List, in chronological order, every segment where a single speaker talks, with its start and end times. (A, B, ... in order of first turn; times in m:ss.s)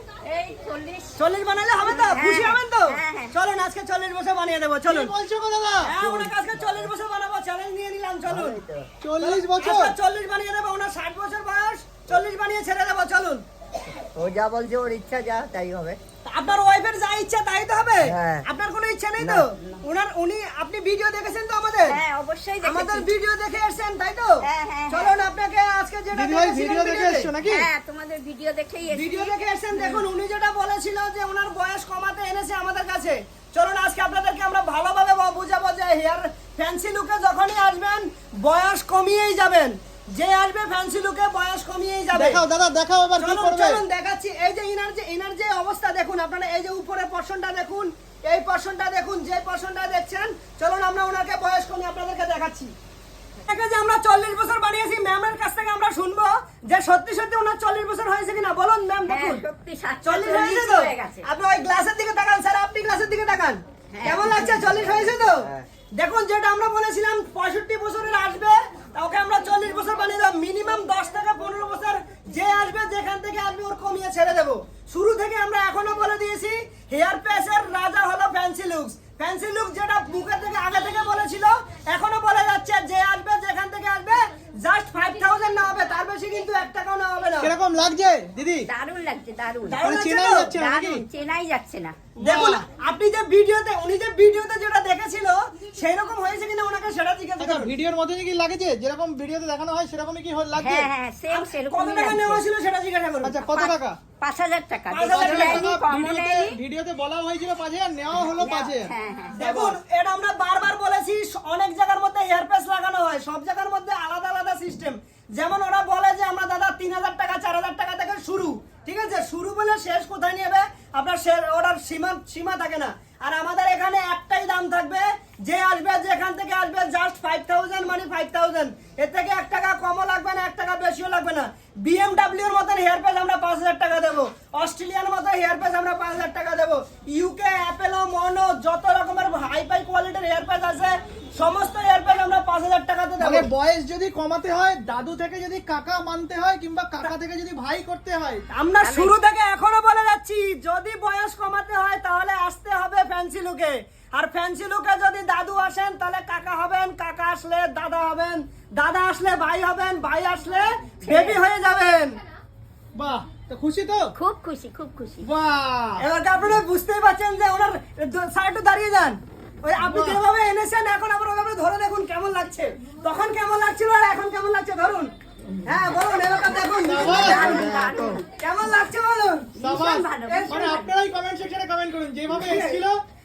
0:00.2-0:01.2 A
0:01.2-0:05.1 B
0:01.9-0:03.4 A
0:04.9-0:05.9 C
0:05.8-0:08.6 B
0:06.0-0:06.9 D
0:08.3-0:08.9 D
0:09.0-0:09.9 C
0:09.2-0:13.4 B
0:13.9-0:16.0 D
0:16.2-0:22.0 B
0:18.0-0:18.4 D
0:21.9-0:23.1 A
0:22.6-0:27.3 B
0:24.4-0:25.1 A
0:26.2-0:27.7 C
0:27.4-0:30.0 A
0:28.9-0:42.4 B
0:42.1-0:43.8 C
0:43.2-0:52.7 B
0:53.5-0:59.4 B
0:59.1-1:01.3 A
1:00.1-1:27.5 B
1:03.9-1:04.4 A
1:04.2-1:05.6 D
1:27.4-1:28.7 C
1:28.7-1:29.8 A
1:29.7-1:30.5 B
1:29.8-1:31.0 C
1:30.6-1:32.0 A
1:32.2-1:37.7 B
1:32.2-1:32.6 C
1:37.4-1:40.9 C
1:40.6-1:42.4 A
1:41.3-1:43.4 B
1:43.2-1:44.0 C
1:43.5-1:46.6 A
1:44.9-1:45.7 B
1:45.1-1:49.8 C
1:48.2-1:49.4 A
1:49.4-2:23.5 B
2:23.2-2:28.4 C
2:28.5-2:42.2 B
2:28.8-2:29.2 A
2:41.0-2:41.4 A
2:43.0-2:44.1 C
2:44.2-2:45.3 A
2:45.2-2:46.0 C
2:46.0-2:55.1 B
2:49.8-2:50.2 C
2:55.6-2:57.8 B
2:56.8-2:57.6 C
2:56.9-2:58.2 A
2:57.3-2:58.2 D
2:58.4-2:59.5 B
2:59.6-3:00.9 A
2:59.6-3:03.0 C
3:00.3-3:00.8 B
3:02.4-3:02.8 B